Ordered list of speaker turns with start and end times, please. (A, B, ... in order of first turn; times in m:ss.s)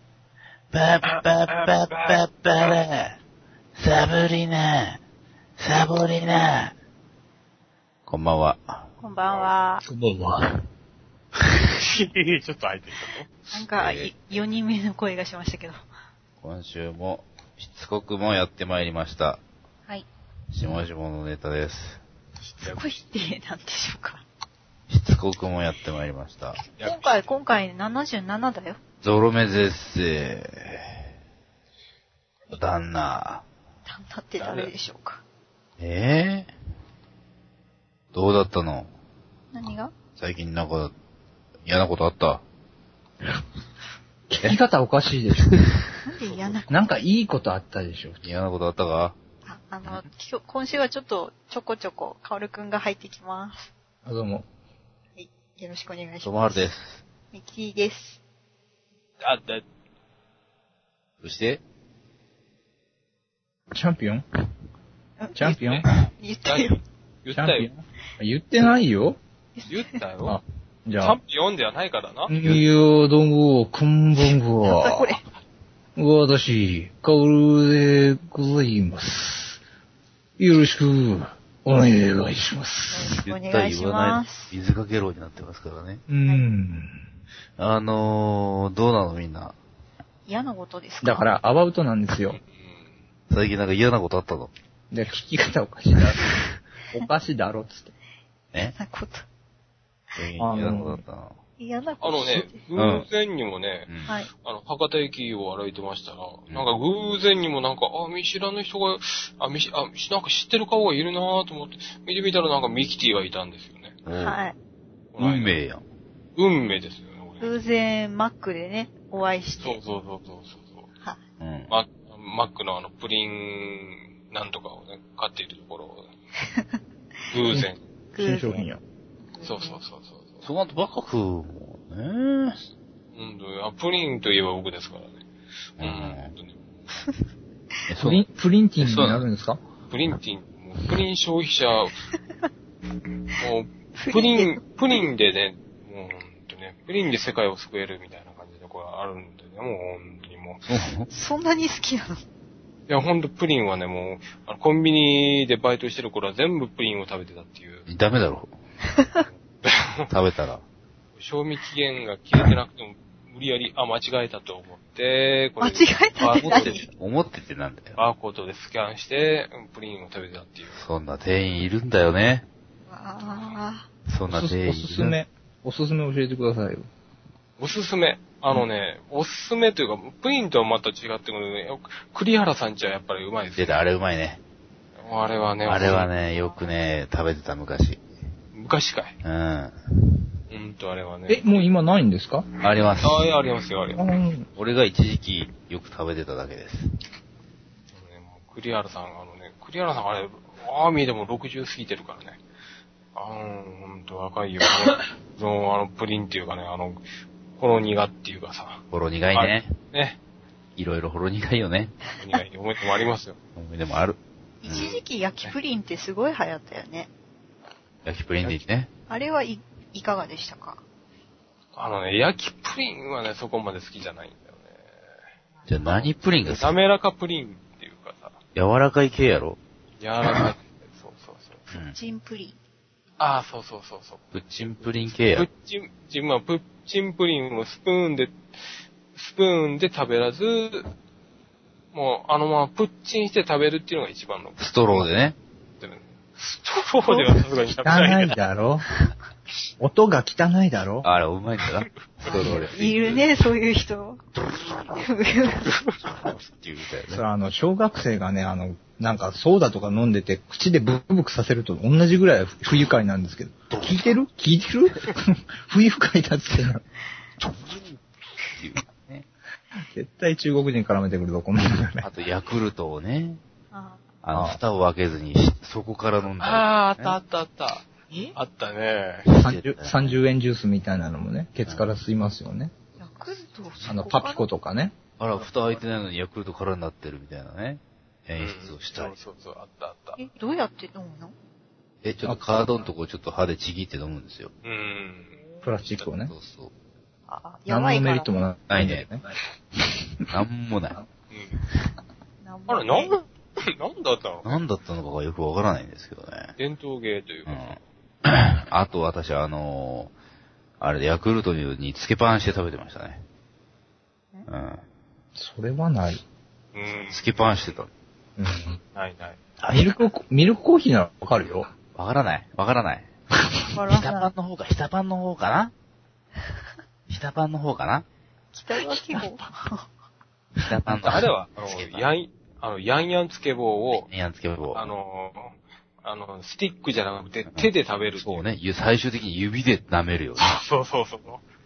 0:00.7-0:03.1 A
0:01.0-0:02.8 B
0:03.8-0:05.0 A
0:05.6-0:06.7 A
0:08.1-0:08.9 A
0:09.0-0:09.8 C
0:09.8-0:10.5 D
0:11.8-0:13.3 B
0:13.5-0:15.8 C
0:13.8-0:14.1 A
0:16.4-0:19.4 A
0:20.5-0:22.0 A
0:22.4-0:24.2 C
0:24.9-0:26.6 A
0:26.7-0:27.3 B
0:26.8-0:28.8 C
0:29.0-0:31.0 A
0:32.5-0:33.4 A
0:33.8-0:35.2 C
0:34.4-0:34.7 B
0:35.8-0:36.5 A
0:38.1-0:38.9 A
0:39.5-0:39.9 C
0:40.2-0:40.9 A
0:41.6-0:42.4 A
0:44.3-0:45.6 D
0:46.1-0:46.7 C
0:46.2-0:46.6 B
0:46.7-0:48.2 D
0:48.2-0:49.2 A
0:49.4-0:53.7 C
0:54.0-0:54.5 D
0:55.1-0:56.7 C
0:56.2-0:57.0 A
0:57.3-0:58.2 C
0:59.2-0:59.6 B
1:01.2-1:01.6 A
1:03.7-1:04.2 D
1:05.2-1:05.6 C
1:05.3-1:05.9 D
1:05.6-1:05.9 B
1:06.2-1:06.8 C
1:06.4-1:07.7 B
1:07.3-1:09.2 D
1:09.6-1:09.9 C
1:09.6-1:10.4 B
1:10.2-1:11.2 D
1:11.0-1:12.3 B
1:12.3-1:15.1 D
1:14.6-1:15.2 C
1:16.0-1:19.6 D
1:20.4-1:23.1 D
1:22.9-1:24.6 C
1:23.2-1:26.0 A
1:26.1-1:27.0 D
1:27.6-1:29.6 A
1:30.3-1:31.3 C
1:31.0-1:32.4 D
1:32.3-1:33.0 B
1:33.3-1:34.5 A
1:34.9-1:37.9 D
1:38.7-1:39.2 C
1:40.2-1:41.4 A
1:40.4-1:41.0 D
1:41.6-1:42.6 C
1:42.0-1:54.0 B
1:42.8-1:43.1 A
1:43.9-1:44.1 A
1:54.0-1:54.4 A
1:54.1-1:54.6 C
1:55.1-1:55.6 B
1:55.2-1:55.8 A
1:56.4-1:57.5 B
1:57.4-1:59.8 C
1:59.6-2:00.9 B
2:01.4-2:01.7 A
2:01.7-2:06.1 B
2:07.3-2:07.8 B
2:08.1-2:08.7 C
2:08.2-2:08.8 D
2:09.3-2:09.8 C
2:09.4-2:10.4 B
2:10.4-2:12.6 A
2:13.2-2:15.2 B
2:15.8-2:16.3 A
2:15.8-2:16.6 B
2:17.9-2:18.2 A
2:18.0-2:19.6 D
2:18.8-2:19.2 A
2:19.9-2:22.0 B
2:23.4-2:30.6 B
2:24.0-2:24.6 C
2:30.6-2:31.1 A
2:31.1-2:32.2 C
2:32.9-2:37.9 B
2:37.9-2:38.5 A
2:39.0-2:39.2 C
2:39.6-2:40.1 B
2:40.1-2:40.6 A
2:41.2-2:46.9 B
2:45.6-2:46.8 C
2:46.3-2:48.0 A
2:48.0-2:50.8 B
2:50.7-2:52.4 A
2:52.9-2:53.8 C
2:54.1-2:55.2 A
2:54.3-2:56.9 D
2:57.6-3:03.8 B
3:03.5-3:04.4 A
3:05.0-3:06.1 B
3:05.6-3:08.0 A
3:05.8-3:06.7 C
3:08.5-3:09.2 B
3:09.2-3:10.1 A
3:10.5-3:11.7 B
3:11.3-3:12.4 D
3:12.6-3:13.4 A
3:13.0-3:14.0 B
3:13.9-3:14.5 D
3:14.6-3:16.9 A
3:17.9-3:22.4 B
3:23.1-3:27.0 B
3:27.6-3:30.2 B
3:28.9-3:29.7 A
3:30.8-3:31.9 A
3:32.2-3:33.4 B
3:33.6-3:35.0 A
3:34.6-3:37.1 C
3:38.0-3:38.9 A
3:39.1-3:40.8 C
3:41.7-3:44.8 B
3:45.7-3:46.8 A
3:45.8-3:48.4 B
3:48.5-3:49.6 A
3:50.0-3:51.7 B
3:51.7-3:52.0 A
3:51.7-3:52.6 C
3:53.2-3:58.4 B
3:54.3-3:55.5 A
3:59.2-4:00.9 B
4:01.9-4:05.1 B
4:04.6-4:05.4 A
4:05.8-4:08.4 B
4:07.1-4:07.4 C
4:07.8-4:08.8 D
4:09.8-4:11.1 D
4:11.0-4:12.9 A
4:11.6-4:13.2 B
4:12.2-4:14.2 C
4:14.8-4:15.7 C
4:15.7-4:16.0 B
4:16.1-4:17.2 A
4:17.1-4:26.8 D
4:27.4-4:29.2 A
4:29.8-4:32.1 D
4:32.0-4:33.4 A
4:33.7-4:34.0 C
4:34.2-4:37.2 A
4:34.3-4:34.6 D
4:36.4-4:39.3 B
4:38.1-4:38.4 C
4:39.2-4:40.2 A
4:39.3-4:42.7 D
4:43.0-4:44.4 C
4:43.8-4:45.0 D
4:45.2-4:49.2 A
4:45.3-4:45.8 B
4:48.4-4:50.2 B
4:50.2-4:51.4 C
4:52.0-4:54.5 A
4:52.2-4:52.8 D
4:54.6-4:55.4 B
4:55.6-4:56.3 D
4:56.3-4:56.7 A
4:57.3-4:58.3 C
4:57.7-4:59.2 D
4:58.7-4:59.1 A
5:00.3-5:01.0 A
5:01.3-5:01.6 B
5:02.4-5:03.2 C
5:02.7-5:04.6 B
5:04.4-5:06.5 A
5:06.6-5:07.8 B
5:07.5-5:10.1 A
5:10.8-5:13.2 A
5:14.5-5:14.8 A
5:15.4-5:16.2 D
5:16.7-5:17.7 B
5:17.1-5:17.9 A
5:18.4-5:18.8 D
5:18.9-5:19.4 B
5:19.6-5:19.9 A
5:19.7-5:21.7 D
5:21.9-5:23.1 A
5:23.7-5:24.3 C
5:23.9-5:25.7 A
5:27.1-5:28.0 A
5:28.5-5:29.9 C
5:28.9-5:29.3 D
5:30.6-5:32.1 A
5:30.9-5:31.2 D
5:31.0-5:34.1 B
5:33.9-5:34.9 A
5:34.7-5:38.5 B
5:37.5-5:40.6 A
5:40.4-5:41.4 B